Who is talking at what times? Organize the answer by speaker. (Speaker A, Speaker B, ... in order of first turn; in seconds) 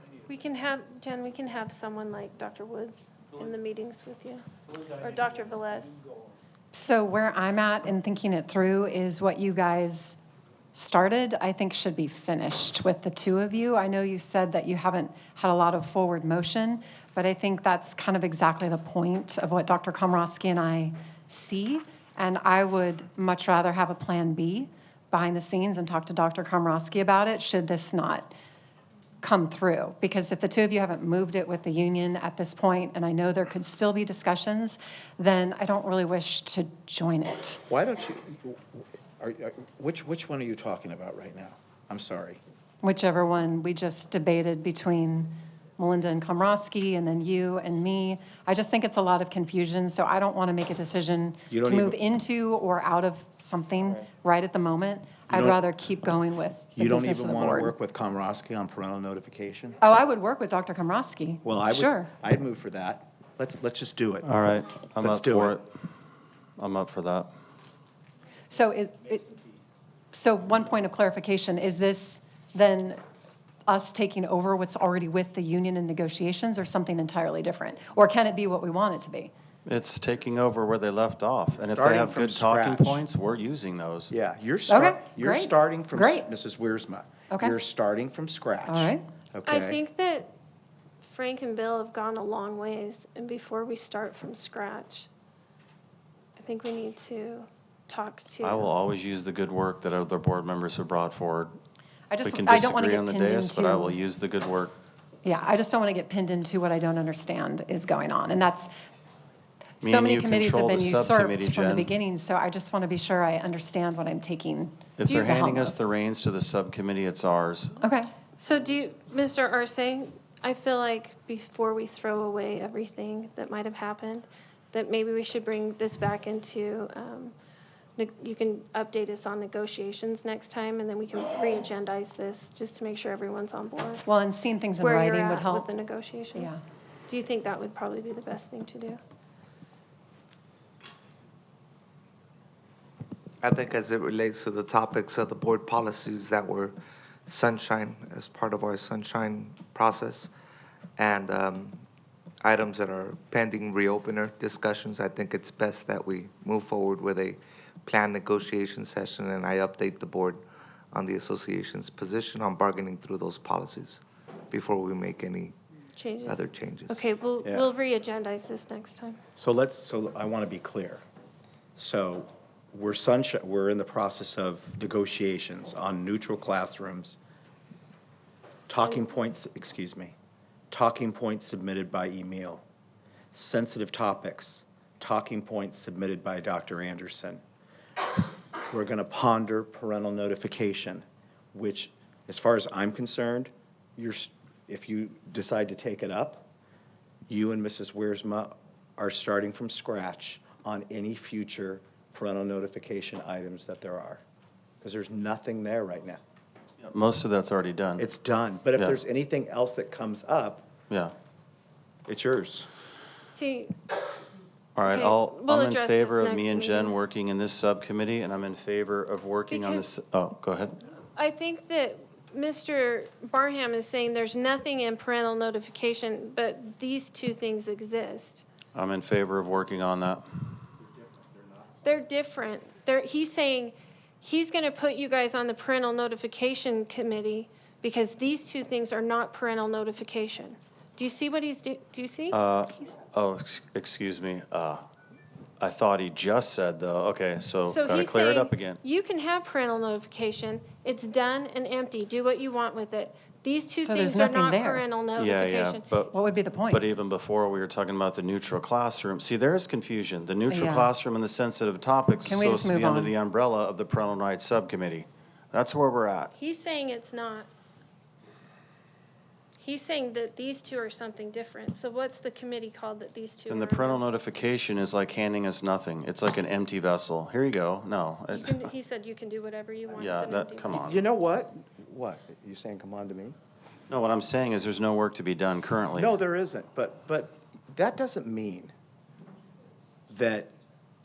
Speaker A: 0.3-6.0, 89.5-90.3, 91.0-95.1, 96.4-98.7, 118.4-127.3, 128.0-134.1, 134.8-139.0, 166.0-169.2, 213.3-213.8, 214.8-217.0, 219.5-219.9, 221.2-228.4, 231.8-242.4, 247.7-255.9, 266.3-267.5, 269.6-274.0, 278.3-280.9
Speaker B: 6.7-10.2, 10.7-28.3, 29.2-37.6, 42.8-57.8, 59.8-62.1, 68.5-69.3, 70.1-73.0, 73.7-79.3, 84.7-86.2, 87.3-87.6, 88.7-89.0, 102.1-104.0, 105.2-108.7, 109.8-115.7, 117.8-118.1, 134.1-135.7, 136.3-136.6, 253.8-254.8, 256.1-256.8, 260.5-260.9, 262.2-263.1
Speaker C: 37.7-38.6, 39.2-42.4, 51.5-52.0, 55.3-55.6, 56.8-59.8, 61.5-64.3, 65.0-65.6, 81.7-83.0, 84.1-89.8, 169.4-171.0, 171.8-177.2, 178.7-180.1, 180.7-182.6, 183.3-187.4, 188.7-196.5, 197.3-204.2, 204.8-206.2, 208.0-210.7, 212.1-212.7, 280.7-283.4, 285.9-288.7, 290.1-290.5
Speaker D: 64.2-65.7, 66.6-67.3, 79.7-84.1, 98.4-101.5, 102.2-104.8, 109.8-111.9, 115.0-117.8, 206.8-208.1, 210.9-211.2, 214.8-220.8, 228.7-230.6, 242.3-244.9, 245.6-248.8, 255.2-256.1, 256.7-266.3, 273.5-278.7, 280.0-281.0, 283.9-286.2
Speaker E: 143.4-146.8, 147.3-150.3, 151.0-151.8, 152.4-165.6, 166.2-167.1